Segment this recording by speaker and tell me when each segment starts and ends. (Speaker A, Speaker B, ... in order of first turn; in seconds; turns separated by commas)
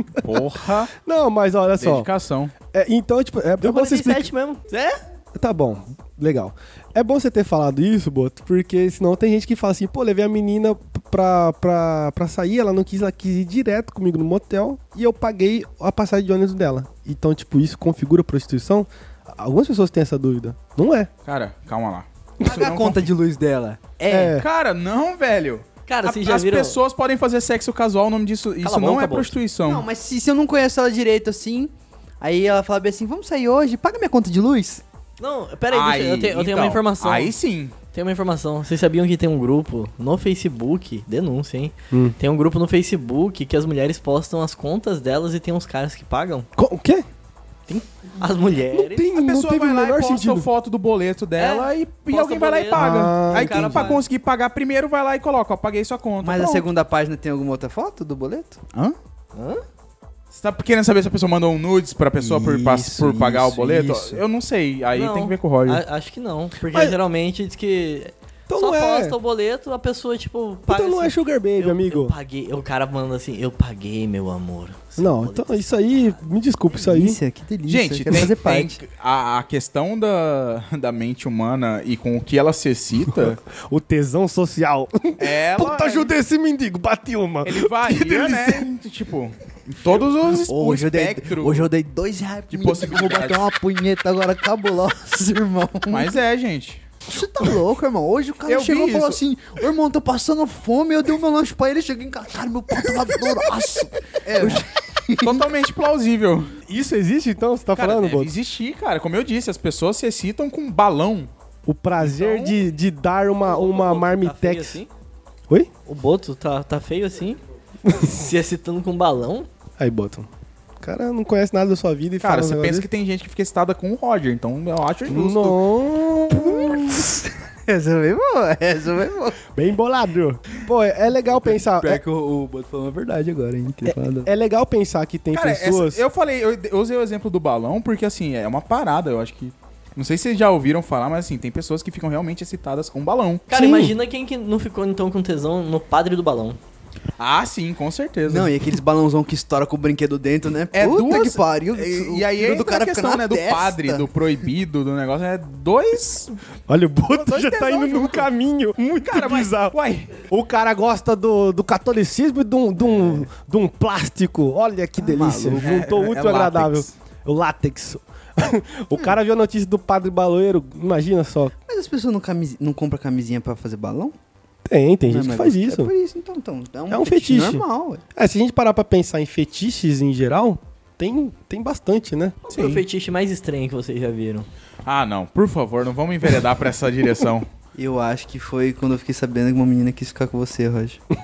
Speaker A: 0.2-0.9, Speaker B: 1.0-2.1, Speaker A: 1.8-2.5, Speaker B: 2.7-4.3, Speaker C: 3.6-5.0, Speaker B: 5.3-21.1, Speaker A: 21.2-23.1, Speaker D: 22.4-24.4, Speaker B: 24.1-24.5, Speaker A: 24.3-29.9, Speaker C: 25.9-26.8, Speaker C: 28.6-29.4, Speaker D: 29.6-34.8, Speaker C: 35.2-37.3, Speaker A: 35.7-37.8, Speaker C: 37.9-46.5, Speaker B: 41.9-42.2, Speaker B: 46.6-47.1, Speaker C: 47.7-49.1, Speaker B: 48.6-50.5, Speaker A: 49.1-56.6, Speaker C: 51.4-54.0, Speaker B: 52.8-54.0, Speaker D: 56.2-58.6, Speaker C: 59.4-59.6, Speaker A: 60.3-65.8, Speaker D: 62.2-64.2, Speaker C: 64.9-76.2, Speaker B: 66.7-67.0, Speaker B: 68.5-69.2, Speaker B: 70.7-72.2, Speaker B: 75.0-77.2, Speaker D: 76.8-78.8, Speaker A: 77.7-83.4, Speaker B: 83.1-88.7, Speaker A: 85.2-86.1, Speaker A: 87.4-91.7, Speaker D: 90.5-96.1, Speaker A: 92.5-93.5, Speaker A: 95.9-96.8, Speaker D: 97.1-105.5, Speaker A: 98.5-99.2, Speaker A: 104.4-104.6, Speaker A: 105.2-106.5, Speaker B: 106.7-108.3, Speaker A: 107.8-111.3, Speaker B: 111.7-114.8, Speaker A: 112.0-112.6, Speaker C: 113.5-114.9, Speaker C: 115.9-119.5, Speaker B: 119.8-120.3, Speaker B: 120.8-122.9, Speaker A: 122.2-125.6, Speaker B: 125.1-127.1, Speaker D: 126.3-129.4, Speaker B: 129.5-132.0, Speaker D: 131.3-134.3, Speaker B: 133.8-136.0, Speaker A: 135.3-143.5, Speaker C: 143.5-146.6, Speaker B: 143.5-143.9, Speaker A: 147.2-148.7, Speaker D: 148.3-154.1, Speaker A: 150.7-156.3, Speaker B: 156.7-171.5, Speaker A: 157.1-158.3, Speaker A: 159.0-160.3, Speaker D: 165.0-165.8, Speaker A: 165.6-166.9, Speaker D: 171.7-174.2, Speaker B: 174.7-175.9, Speaker D: 175.1-178.0, Speaker B: 176.9-182.4, Speaker A: 182.5-182.8, Speaker C: 182.5-184.5, Speaker A: 184.8-187.5, Speaker D: 187.8-191.0